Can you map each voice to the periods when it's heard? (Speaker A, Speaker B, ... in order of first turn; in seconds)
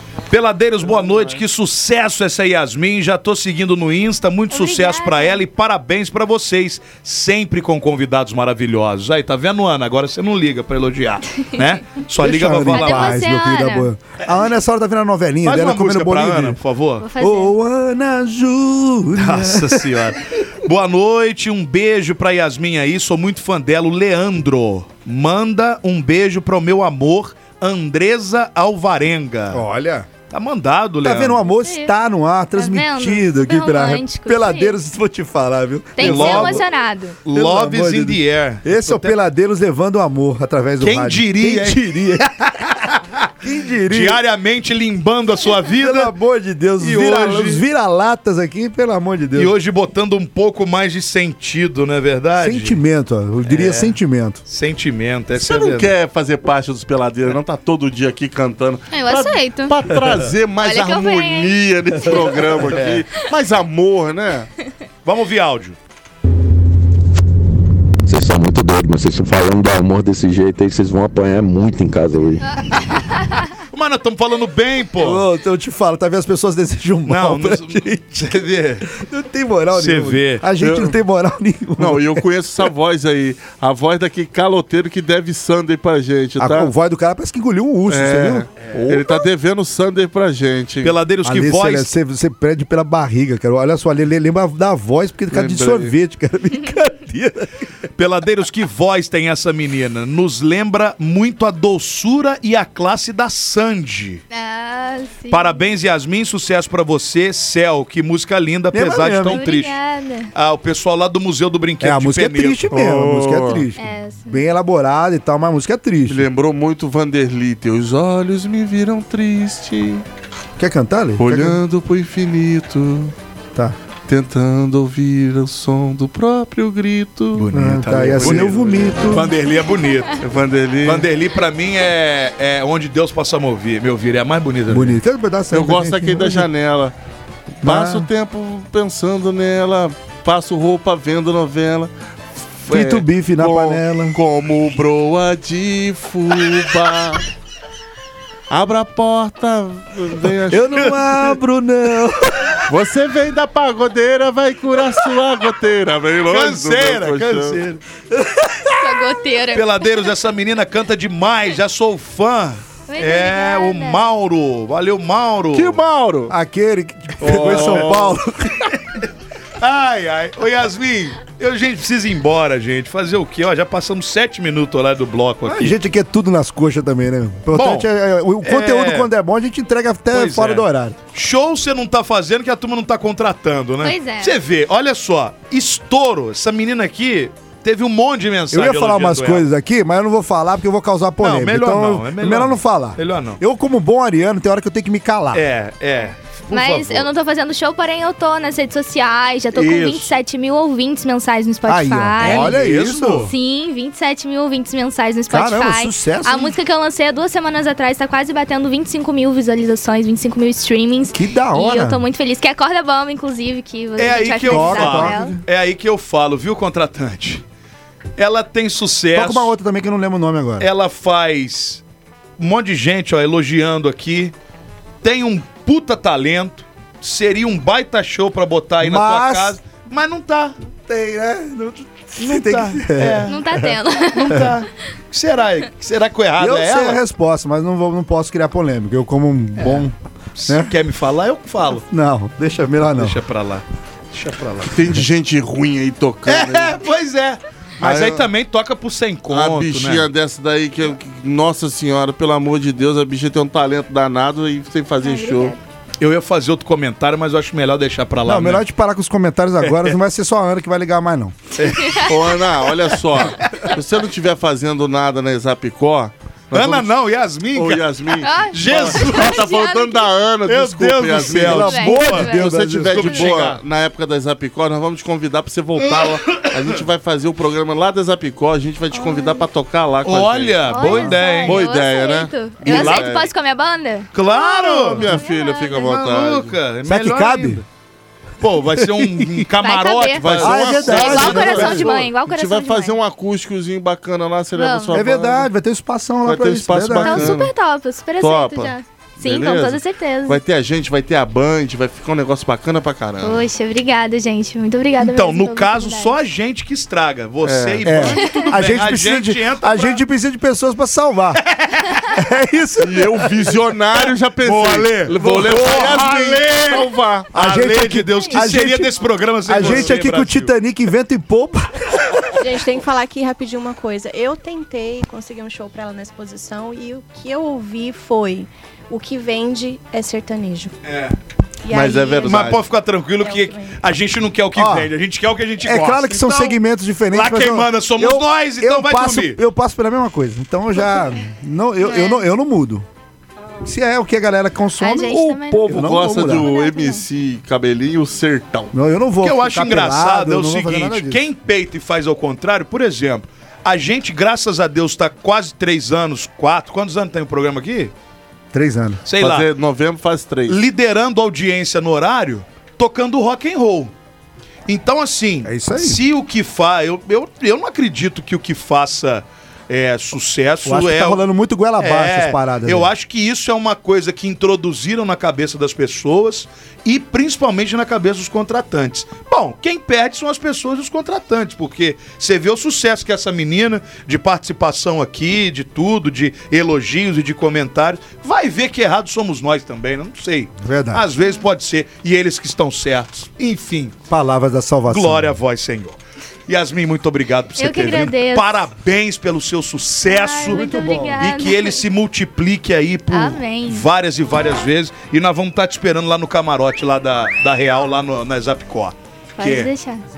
Speaker A: 0.3-13.2, 15.4-17.1, 19.1-29.6, 30.3-31.4, 36.0-36.6, 37.2-39.1, 40.8-43.3, 43.9-46.1, 46.8-47.6, 49.3-52.8, 53.4-55.9, 62.7-63.0, 65.0-65.8, 73.7-75.2, 77.1-78.9, 79.7-80.4, 88.7-89.2, 90.8-91.9, 98.0-104.2, 105.3-109.8, 110.3-112.7, 127.3-130.2, 130.8-135.0, 156.3-157.8, 159.5-165.8, 167.2-168.1, 169.6-175.8, 177.5-177.9, 178.4-179.1, 180.1-189.5, 191.2-193.4, 195.3-197.1, 202.2-203.3, 214.0-217.4, 218.2-219.5, 220.6-221.8, 222.4-224.3, 225.0-230.5, 232.2-233.4, 234.1-237.0, 239.6-241.8, 242.9-244.7, 246.2-250.1, 256.0-258.6, 259.6-259.9, 261.6-262.1, 266.5-269.4, 270.4-273.6, 275.8-276.6, 280.0-281.7, 282.6-283.1, 284.1-285.2, 285.7-287.6, 288.4-292.1, 305.0-310.0, 311.4-312.1, 314.4-320.5, 330.8-331.2, 332.2-336.6, 337.1-339.4, 349.2-357.9, 359.1-359.5, 360.5-363.9, 364.7-371.2, 371.8-393.9, 394.9-400.6, 401.2-409.7
Speaker B: 0.8-1.4, 55.4-64.5, 80.6-81.0, 81.8-86.7, 87.9-91.0, 95.3-95.9, 112.7-113.7, 116.1-120.0, 121.2-123.1, 124.1-129.2, 130.2-131.1, 135.5-136.9, 137.6-147.2, 148.5-151.1, 152.7-157.6, 165.5-166.3, 167.2-168.2, 199.6-200.1, 244.7-246.8, 247.8-248.1, 249.3-255.5, 262.1-266.9, 267.5-283.3, 284.3-286.6, 290.2-295.5, 296.2-297.5, 298.2-303.4, 307.4-308.0, 312.8-317.3, 319.6-320.4, 331.7-332.6, 345.4-348.7, 359.2-360.6
Speaker C: 4.5-5.4, 12.7-13.9, 17.0-17.5, 31.5-31.9, 32.5-34.8, 36.0-37.2, 58.9-59.8, 60.6-61.5, 104.3-105.6, 109.3-110.3, 113.8-114.4, 158.8-159.6, 162.9-164.0, 183.8-184.3, 196.5-202.6, 203.1-215.3, 233.2-234.5, 255.0-255.6, 261.7-262.2, 268.2-270.1, 271.6-272.4, 278.9-279.4, 280.7-285.9, 289.6-293.0, 294.5-295.0, 297.0-300.4, 303.2-306.1, 308.2-308.4, 331.6-332.4, 341.8-342.2, 344.8-347.1, 397.6-398.6, 400.1-401.8, 403.1-403.9, 409.4-410.0
Speaker D: 12.2-16.6, 17.2-20.0, 29.5-30.1, 31.0-36.6, 37.3-42.3, 43.4-44.2, 45.8-49.5, 52.4-54.4, 75.0-78.0, 78.9-82.2, 86.4-88.5, 91.2-97.5, 108.7-109.4, 111.8-116.3, 120.6-121.6, 127.5-129.3, 134.7-136.5, 137.6-138.1, 142.7-144.2, 150.5-152.6, 158.1-159.1, 166.3-168.7, 175.4-181.0, 188.5-195.4, 201.7-203.3, 205.3-206.5, 211.1-212.0, 214.4-215.4, 219.1-220.7, 228.8-229.6, 230.9-233.7, 236.4-239.9, 240.5-240.7, 241.9-243.2, 247.8-248.2, 258.2-261.4, 271.2-273.4, 286.8-287.6, 288.8-289.3, 290.4-291.9, 294.9-297.4, 307.8-311.4, 312.1-313.4, 315.4-315.8, 317.3-322.5, 334.5-334.9, 335.6-342.8, 343.6-346.5, 348.7-351.2, 358.5-359.0, 365.4-366.0, 370.6-372.9, 390.6-391.1, 394.1-395.3, 400.5-401.2
Speaker E: 68.0-72.5
Speaker F: 322.4-330.7, 333.2-333.7